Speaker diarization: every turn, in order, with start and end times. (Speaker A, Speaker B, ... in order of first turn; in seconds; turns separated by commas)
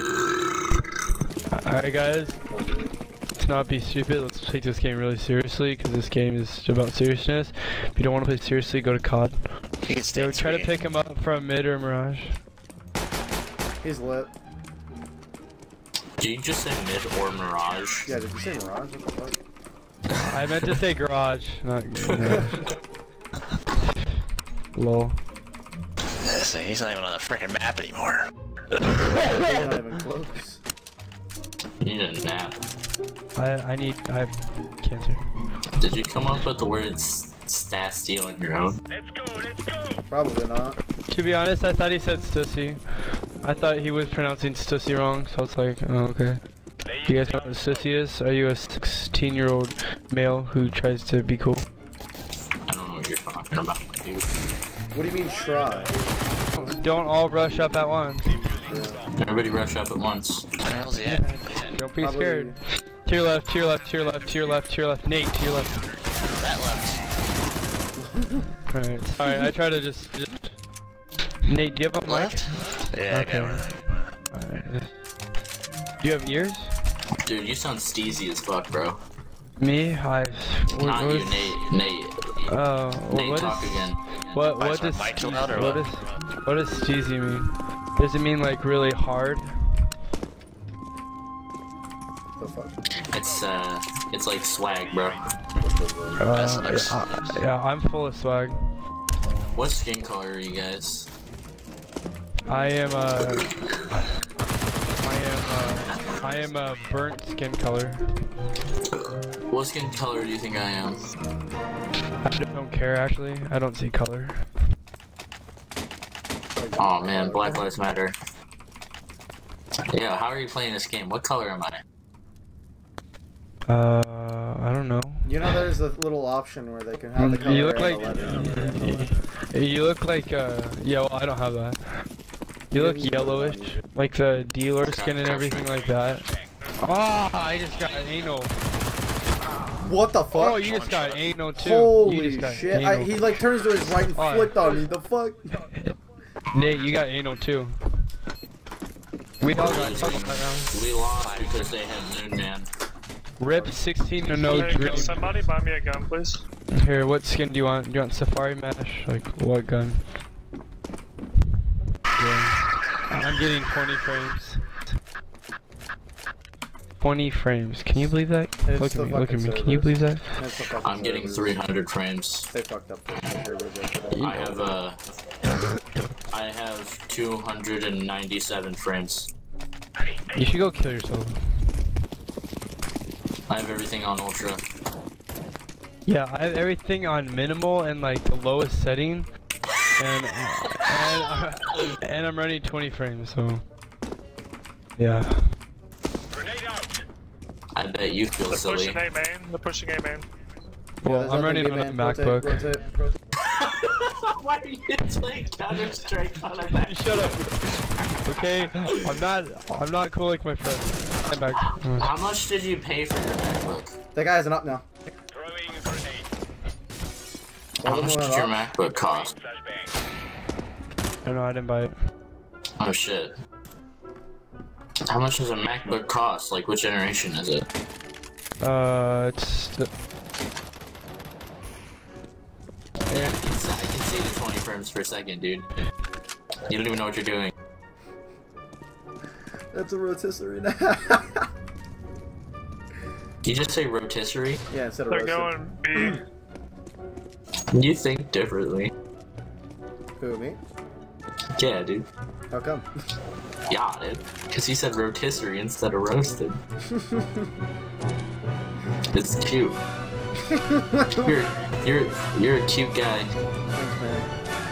Speaker A: 1.5-2.4, Speaker B: 2.5-2.9, Speaker A: 3.4-9.6, Speaker C: 9.8-10.7, Speaker A: 10.1-12.4, Speaker B: 13.8-14.3, Speaker D: 16.2-18.1, Speaker B: 18.1-19.4, Speaker A: 20.2-22.6, Speaker A: 24.7-25.2, Speaker C: 26.2-28.3, Speaker B: 29.2-30.6, Speaker D: 31.8-32.5, Speaker A: 33.4-35.2, Speaker D: 35.8-38.8, Speaker B: 40.1-40.8, Speaker A: 41.1-46.4, Speaker A: 47.0-51.6, Speaker D: 52.6-54.3, Speaker B: 54.9-55.9, Speaker A: 56.5-58.4, Speaker B: 58.6-59.0, Speaker D: 59.2-60.5, Speaker C: 60.6-61.7, Speaker A: 61.0-65.7, Speaker B: 62.0-62.6, Speaker C: 66.2-67.0, Speaker B: 68.0-68.5, Speaker A: 68.7-70.5, Speaker A: 71.4-73.8, Speaker C: 72.0-74.0, Speaker A: 74.3-74.9, Speaker A: 76.0-76.7, Speaker D: 77.2-79.0, Speaker A: 79.6-81.6, Speaker D: 80.8-82.5, Speaker A: 82.5-89.5, Speaker D: 83.1-84.4, Speaker C: 84.6-86.4, Speaker B: 92.4-92.8, Speaker D: 93.1-95.2, Speaker B: 95.6-96.2, Speaker A: 96.2-98.6, Speaker C: 96.3-97.3, Speaker D: 99.5-101.1, Speaker A: 102.5-104.0, Speaker A: 105.0-108.0, Speaker D: 105.8-106.2, Speaker D: 108.9-111.0, Speaker A: 112.2-114.5, Speaker B: 116.5-117.7, Speaker D: 116.8-118.2, Speaker D: 119.9-121.8, Speaker A: 123.7-125.3, Speaker B: 125.2-129.1, Speaker A: 127.2-132.1, Speaker A: 132.7-136.2, Speaker B: 132.7-133.8, Speaker D: 134.8-135.8, Speaker A: 136.8-138.5, Speaker B: 139.8-140.6, Speaker A: 140.3-143.4, Speaker C: 140.6-141.1, Speaker B: 141.6-145.5, Speaker A: 144.1-144.6, Speaker A: 145.7-145.9, Speaker A: 146.5-147.8, Speaker A: 149.4-150.7, Speaker D: 149.5-152.7, Speaker C: 151.2-151.7, Speaker A: 153.4-155.3, Speaker B: 153.5-153.7, Speaker E: 154.3-156.4, Speaker A: 156.7-160.1, Speaker A: 162.2-164.9, Speaker A: 167.0-170.4, Speaker B: 168.6-171.6, Speaker D: 170.8-172.5, Speaker B: 172.5-174.5, Speaker D: 174.1-175.0, Speaker D: 176.3-179.3, Speaker A: 180.3-181.4, Speaker D: 183.5-184.6, Speaker A: 186.1-189.3, Speaker A: 190.0-193.6, Speaker A: 195.0-195.5, Speaker E: 196.5-196.9, Speaker D: 197.7-199.0, Speaker E: 198.5-200.2, Speaker A: 201.0-202.7, Speaker B: 201.0-203.2, Speaker D: 203.5-207.2, Speaker A: 206.7-207.6, Speaker D: 208.0-209.1, Speaker A: 208.2-212.1, Speaker D: 211.5-213.9, Speaker B: 214.1-214.8, Speaker B: 217.8-218.7, Speaker D: 217.8-219.3, Speaker A: 221.2-221.9, Speaker D: 222.8-223.3, Speaker D: 225.1-227.7, Speaker A: 228.6-229.9, Speaker A: 233.1-233.4, Speaker D: 233.1-235.7, Speaker D: 236.7-237.5, Speaker B: 239.7-241.4, Speaker D: 243.4-244.6, Speaker B: 244.7-246.2, Speaker E: 245.1-246.2, Speaker D: 247.7-248.9, Speaker B: 250.2-250.6, Speaker D: 251.6-252.1, Speaker B: 252.5-252.9, Speaker D: 253.7-256.6, Speaker B: 256.9-257.4, Speaker D: 259.1-259.8, Speaker B: 260.5-261.3, Speaker D: 261.2-263.3, Speaker B: 263.7-264.3